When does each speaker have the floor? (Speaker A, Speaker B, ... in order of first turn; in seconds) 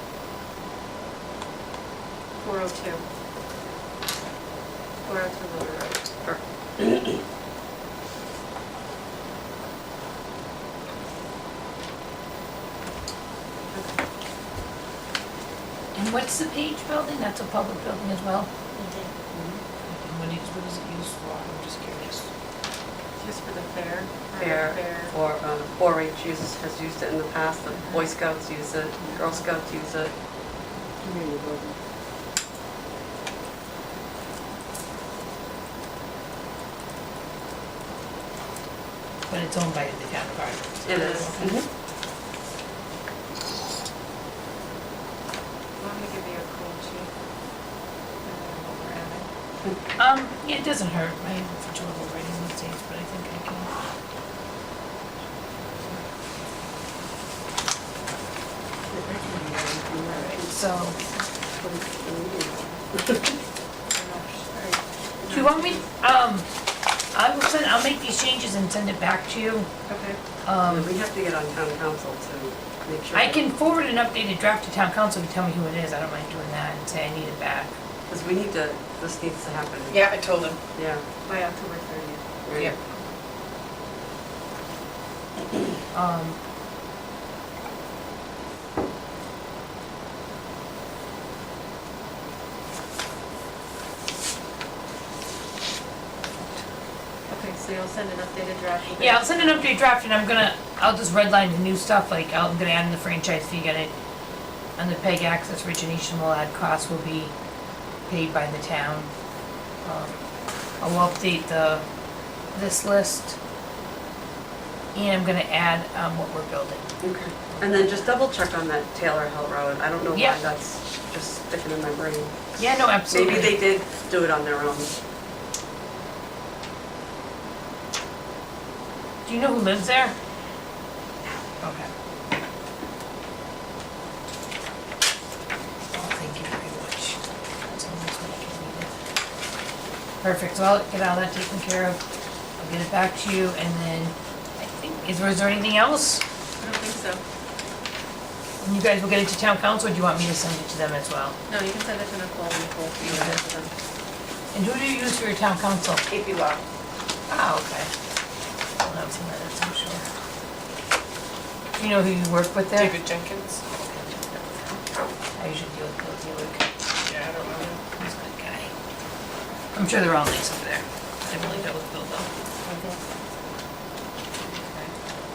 Speaker A: 2.4-3.0, 5.0-6.0, 18.8-19.1, 23.2-25.1, 45.8-47.1, 48.2-49.3, 63.9-65.8, 69.9-70.2, 81.2-83.1, 97.3-99.7, 146.6-147.2, 151.5-153.7, 172.7-173.0
Speaker B: 6.2-7.1, 24.4-30.1, 40.9-41.7, 58.9-60.5, 61.6-63.4, 70.6-73.5, 78.1-80.0, 80.7-81.0, 82.5-82.7, 117.0-122.3, 123.1-124.9
Speaker C: 15.9-18.5, 19.9-22.3, 39.3-41.5, 50.0-53.7, 60.1-61.0, 65.3-66.5, 67.1-69.7, 70.4-70.9, 73.1-77.7, 85.9-86.4, 99.0-103.9, 104.8-107.3, 108.1-109.1, 109.8-110.2, 110.8-111.8, 112.5-113.3, 114.9-116.9, 117.5-118.1, 120.1-120.4, 122.6-123.6, 129.2-130.1, 131.6-131.9, 135.9-138.9, 140.2-142.0, 142.6-146.2, 148.6-151.3, 153.0-153.4, 154.5-156.1, 157.3-157.9, 158.8-160.0, 161.8-163.0, 163.8-164.2, 165.4-166.7, 168.0-168.7, 169.7-172.3
Speaker D: 79.9-80.6, 156.1-156.6, 162.7-163.7, 167.1-167.8, 174.6-174.9